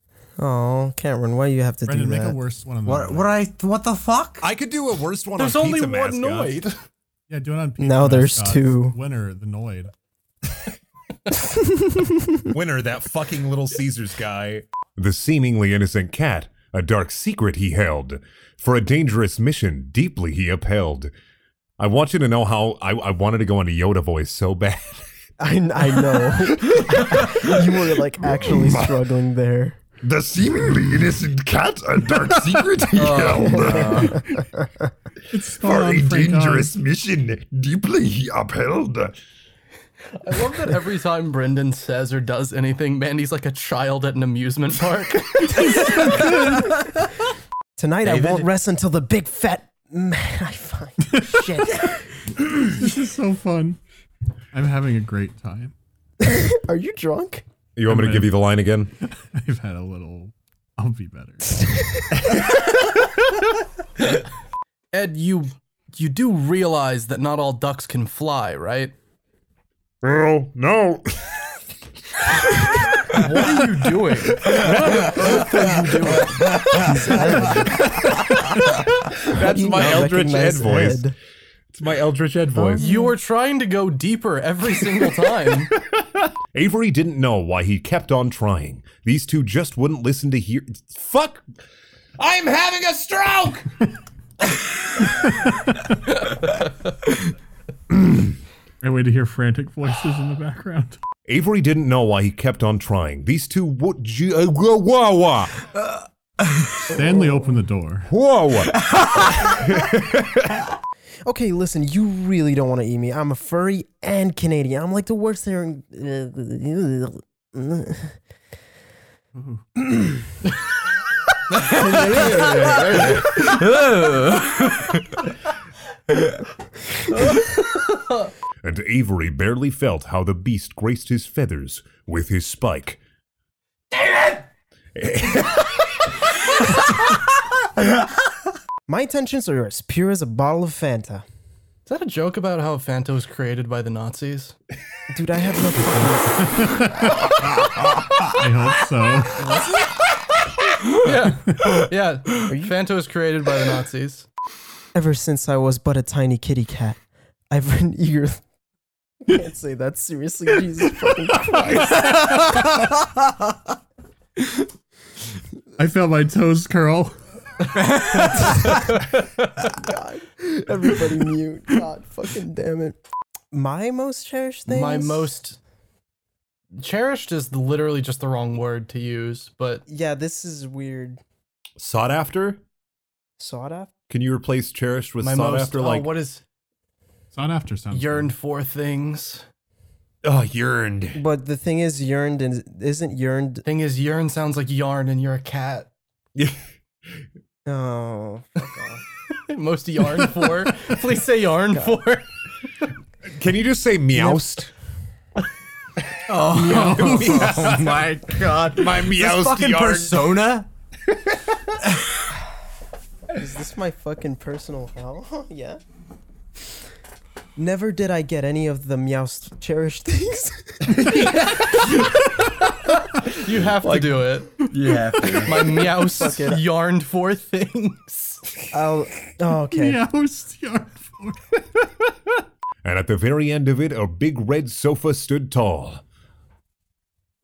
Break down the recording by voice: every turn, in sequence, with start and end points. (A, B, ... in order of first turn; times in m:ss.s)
0:00.4-0:02.4 A
0:01.9-0:03.3 B
0:02.8-0:04.4 C
0:04.4-0:06.6 D
0:05.4-0:06.8 E
0:07.3-0:09.9 B
0:07.8-0:09.0 A
0:11.7-0:12.2 A
0:12.5-0:21.1 D
0:21.8-0:25.0 D
0:25.4-0:29.8 A
0:26.6-0:27.6 D
0:28.4-0:29.0 D
0:30.0-0:34.3 D
0:33.0-0:34.1 C
0:33.8-0:34.1 A
0:35.3-0:36.7 B
0:35.6-0:39.1 D
0:40.1-0:46.2 E
0:45.6-0:46.8 B
0:47.8-0:52.1 A
0:48.0-0:48.5 C
0:52.4-0:53.8 B
0:54.5-0:55.7 B
0:56.2-0:57.4 A
0:57.8-0:58.9 D
0:57.8-0:58.3 B
0:59.0-1:01.6 B
1:04.9-1:08.9 E
1:10.0-1:11.1 D
1:12.5-1:13.6 D
1:13.1-1:17.6 E
1:14.3-1:16.9 D
1:16.7-1:17.8 A
1:19.1-1:21.0 D
1:19.3-1:21.1 A
1:21.7-1:22.8 D
1:22.5-1:23.1 A
1:22.8-1:25.7 E
1:26.5-1:31.4 D
1:32.2-1:33.7 D
1:38.8-1:41.0 B
1:41.2-1:45.7 D
1:46.9-1:48.1 B
1:47.0-1:47.5 A
1:48.1-1:48.8 D
1:49.4-1:50.6 D
1:51.2-1:58.2 A
2:01.7-2:03.2 A
2:01.7-2:03.3 E
2:02.7-2:03.2 D
2:03.0-2:04.9 C
2:07.1-2:08.3 E
2:08.6-2:13.0 D
2:15.0-2:16.0 D
2:16.7-2:17.2 D
2:18.9-2:21.2 A
2:21.9-2:24.5 E
2:25.1-2:26.7 A
2:25.8-2:27.3 B
2:28.3-2:29.4 B
2:29.4-2:29.7 E
2:31.0-2:34.3 E
2:32.5-2:32.8 A
2:34.9-2:37.0 A
2:37.5-2:38.4 A
2:39.2-2:42.0 A
2:45.8-2:47.2 B
2:49.7-2:53.0 A
2:53.5-2:55.3 A
2:54.6-2:55.6 E
2:56.8-2:59.8 E
2:59.9-3:01.2 A
3:01.8-3:02.6 D
3:03.4-3:03.9 A
3:04.1-3:06.1 D
3:05.2-3:06.4 E
3:07.3-3:08.3 B
3:07.9-3:09.4 E
3:10.2-3:11.2 D
3:11.1-3:13.6 A
3:13.6-3:15.9 E
3:17.6-3:19.0 A
3:19.3-3:22.2 E
3:21.7-3:22.0 A
3:23.3-3:24.7 D
3:24.1-3:24.4 A
3:26.3-3:30.7 C
3:26.5-3:27.5 B
3:26.6-3:27.3 A
3:26.7-3:30.6 D
3:33.3-3:35.8 A
3:37.6-3:41.2 A
3:40.8-3:41.9 D
3:43.3-3:44.7 E
3:43.7-3:44.3 D
3:44.7-3:45.8 C
3:45.2-3:48.4 E
3:46.1-3:46.6 A
3:48.7-3:50.0 A
3:49.7-3:51.8 B
3:52.8-3:56.0 D